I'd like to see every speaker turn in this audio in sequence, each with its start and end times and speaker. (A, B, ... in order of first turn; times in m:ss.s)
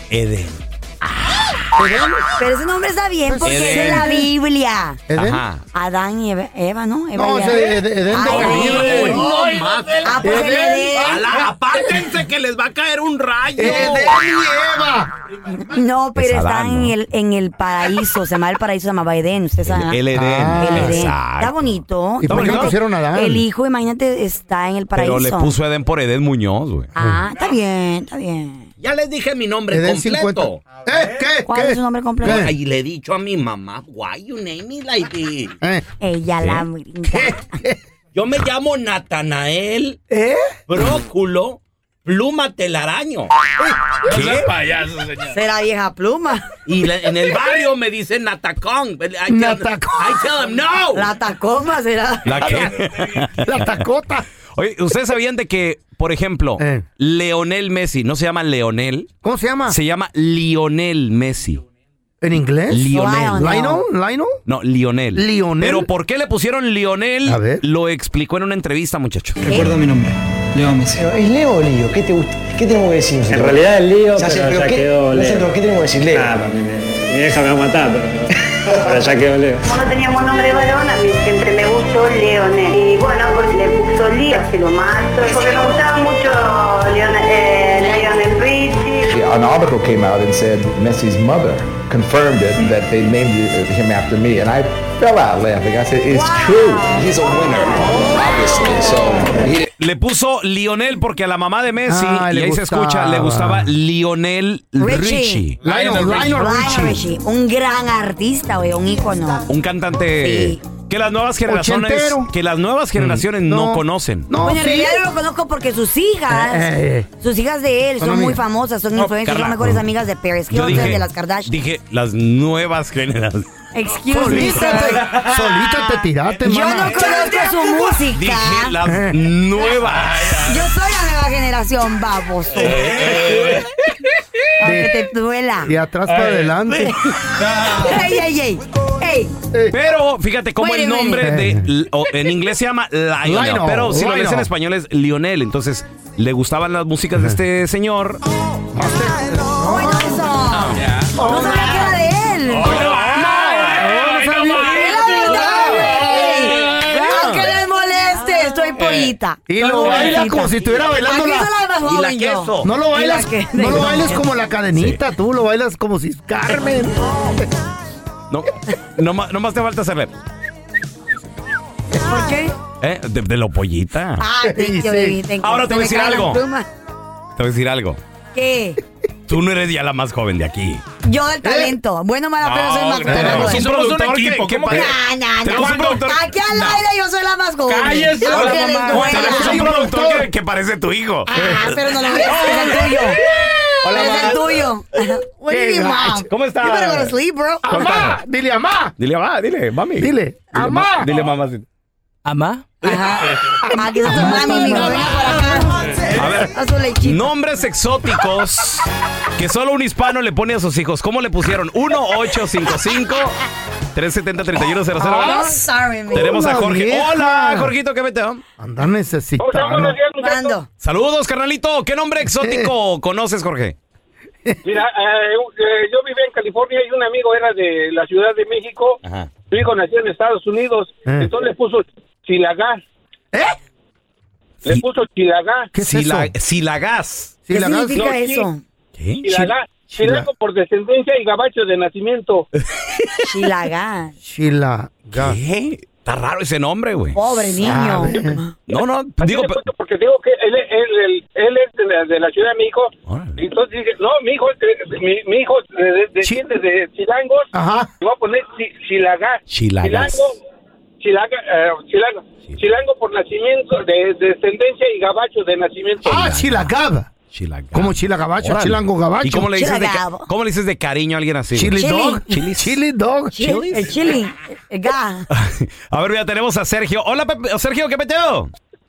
0:00.1-0:01.6 A
0:01.8-0:02.3 B
0:02.4-0:05.0 C
0:03.2-0:04.3 B
0:03.4-0:04.2 A
0:05.1-0:05.4 B
0:05.1-0:05.6 A
0:05.7-0:09.2 C
0:07.1-0:09.3 B
0:08.2-0:10.3 A
0:09.2-0:09.7 D
0:10.0-0:11.2 C
0:10.2-0:12.1 B
0:10.9-0:14.1 A
0:13.5-0:15.1 B
0:15.5-0:20.0 C
0:16.1-0:17.0 A
0:19.6-0:22.7 A
0:20.1-0:21.1 B
0:20.5-0:25.5 C
0:22.2-0:23.4 B
0:24.9-0:26.9 A
0:26.9-0:28.7 C
0:28.8-0:30.6 A
0:29.7-0:32.5 B
0:31.5-0:32.5 C
0:32.2-0:35.6 A
0:36.0-0:37.5 C
0:37.1-0:37.8 B
0:38.1-0:40.0 A
0:40.1-0:40.5 B
0:40.7-0:43.3 A
0:43.6-0:44.3 B
0:44.0-0:45.4 D
0:44.0-0:44.5 A
0:45.3-0:46.5 C
0:46.7-0:51.1 A
0:49.3-0:50.3 B
0:50.9-0:52.6 C
0:52.2-0:53.6 A
0:53.2-0:54.3 B
0:54.5-0:59.1 A
0:56.6-0:56.8 B
0:59.2-0:59.8 B
0:59.7-1:01.6 A
1:02.2-1:04.4 B
1:02.7-1:03.4 A
1:02.9-1:03.8 C
1:04.5-1:09.6 A
1:05.1-1:05.9 B
1:07.2-1:07.6 B
1:09.4-1:09.8 C
1:09.5-1:10.1 E
1:10.7-1:16.4 F
1:13.3-1:15.5 E
1:16.1-1:19.7 E
1:19.6-1:29.1 G
1:29.0-1:39.7 H
1:36.1-1:39.0 C
1:39.6-1:45.6 A
1:41.8-1:43.7 B
1:44.8-1:49.5 C
1:45.6-1:47.0 B
1:45.6-1:46.4 D
1:49.5-1:54.3 A
1:50.2-1:50.6 C
1:51.4-1:52.3 B
1:53.0-1:55.0 B
1:54.4-2:01.5 C
1:56.3-1:57.1 B
1:58.0-1:58.4 B
1:59.0-1:59.8 A
2:00.5-2:03.5 A
2:00.6-2:00.9 B
2:03.7-2:05.2 C
2:04.1-2:07.3 B
2:04.2-2:04.7 A
2:06.4-2:08.7 C
2:07.9-2:10.3 A
2:08.8-2:09.3 B
2:09.9-2:10.6 D
2:10.4-2:13.3 C
2:12.5-2:13.7 D
2:14.6-2:15.7 C
2:14.6-2:15.0 B
2:15.6-2:17.0 B
2:16.1-2:16.7 D
2:17.4-2:18.0 D
2:17.6-2:19.3 C
2:19.5-2:19.8 B
2:19.7-2:28.2 A
2:20.6-2:21.3 C
2:21.2-2:21.7 B
2:23.2-2:24.5 B
2:27.1-2:27.4 B
2:28.7-2:30.1 B
2:29.6-2:33.0 C
2:30.8-2:31.1 D
2:31.1-2:32.0 B
2:32.5-2:36.9 D
2:32.6-2:34.5 A
2:33.0-2:36.7 B
2:34.5-2:44.2 C
2:35.2-2:35.6 A
2:36.9-2:37.5 A
2:38.8-2:39.1 D
2:39.5-2:41.5 B
2:39.7-2:40.2 A
2:41.8-2:42.7 A
2:42.6-2:47.5 B
2:48.3-2:50.1 A
2:52.0-2:52.5 C
2:52.8-2:54.2 A
2:54.2-2:56.6 C
2:54.4-2:55.2 B
2:55.4-2:56.4 A
2:57.4-2:58.0 A
2:58.3-2:58.8 C
2:59.3-3:00.8 A
3:01.0-3:03.6 C
3:01.4-3:01.8 B
3:02.4-3:04.9 D
3:03.1-3:03.6 B
3:03.1-3:06.2 A
3:04.7-3:09.7 C
3:05.5-3:06.8 D
3:07.7-3:09.1 D
3:08.2-3:13.1 A
3:08.9-3:10.3 B
3:11.3-3:13.2 C
3:13.8-3:14.6 B
3:13.8-3:18.0 C
3:14.0-3:14.4 A
3:15.5-3:16.3 B
3:16.3-3:17.1 A
3:17.6-3:18.9 B
3:17.7-3:18.2 A
3:19.0-3:21.6 A
3:20.0-3:21.1 B
3:22.2-3:23.2 A
3:22.8-3:27.3 C
3:23.5-3:25.3 B
3:26.1-3:33.4 A
3:33.9-3:38.4 A
3:35.0-3:35.5 B
3:35.0-3:36.4 C
3:36.1-3:37.7 B
3:38.6-3:40.0 B
3:39.4-3:40.6 I
3:40.2-3:40.7 C
3:40.8-3:43.8 A
3:42.3-3:42.7 B
3:44.6-3:52.8 I
3:49.0-3:49.3 A
3:54.6-3:55.7 I
3:55.7-3:56.3 B
3:55.8-3:57.4 A
3:57.4-3:58.1 B
3:57.5-3:58.6 C
3:57.9-3:58.5 I
3:59.0-3:59.5 A
3:59.2-4:02.5 I
3:59.9-4:00.3 B
4:03.2-4:04.1 C
4:04.2-4:05.4 B
4:05.1-4:07.9 A
4:07.1-4:08.5 C
4:07.6-4:08.4 B
4:08.7-4:09.6 A
4:09.2-4:17.5 I
4:13.0-4:13.4 A
4:17.5-4:17.9 B
4:18.0-4:20.3 I
4:19.5-4:20.2 A
4:21.0-4:26.3 I
4:26.0-4:27.1 B
4:26.1-4:26.7 A
4:27.3-4:32.7 A
4:27.7-4:29.5 B
4:29.6-4:30.3 C
4:31.5-4:33.8 B
4:31.8-4:32.2 C
4:33.3-4:35.3 C
4:33.4-4:33.8 A
4:35.3-4:38.5 A